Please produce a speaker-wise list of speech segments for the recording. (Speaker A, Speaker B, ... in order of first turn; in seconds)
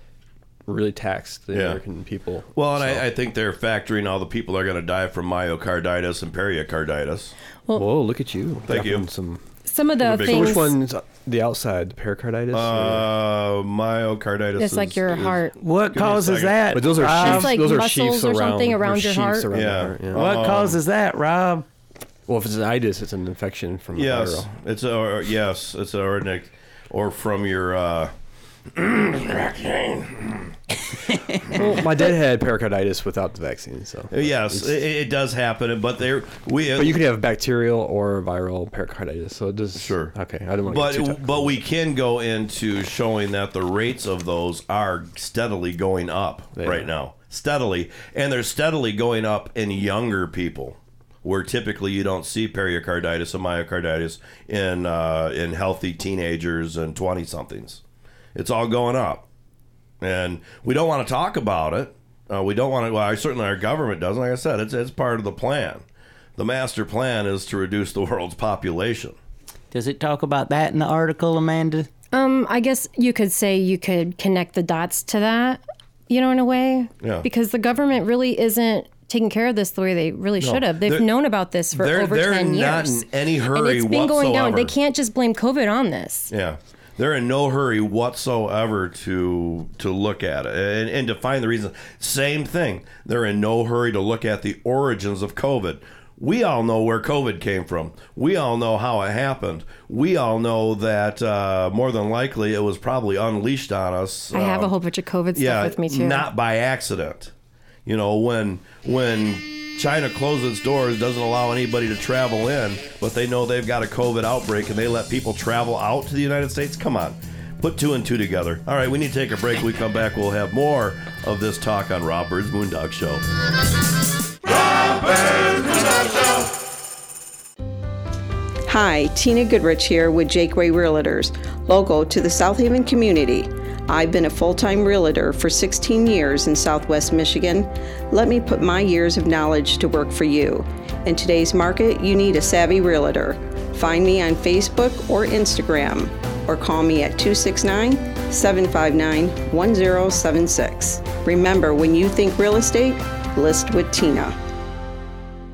Speaker A: 0.7-3.0, 7.8-9.4, 10.1-13.1, 16.7-20.2, 22.3-24.5, 31.5-34.8, 36.7-41.5, 46.5-46.9
Speaker B: 1.5-1.8, 2.5-7.3, 8.7-9.1, 10.0-10.7, 12.5-17.3, 19.5-20.8, 23.9-28.1, 28.7-30.4, 34.1-37.0, 39.8-57.8, 58.3-59.2, 60.0-65.8, 66.4-69.2, 77.0-77.3, 80.4-81.1, 81.7-84.7, 86.3-104.7, 105.3-107.3, 107.8-123.2
Speaker C: 9.6-10.7, 14.6-15.6, 17.2-19.5, 72.1-86.3, 104.3-106.3
Speaker D: 15.6-17.5, 20.1-21.6, 69.7-71.9
Speaker E: 128.7-154.4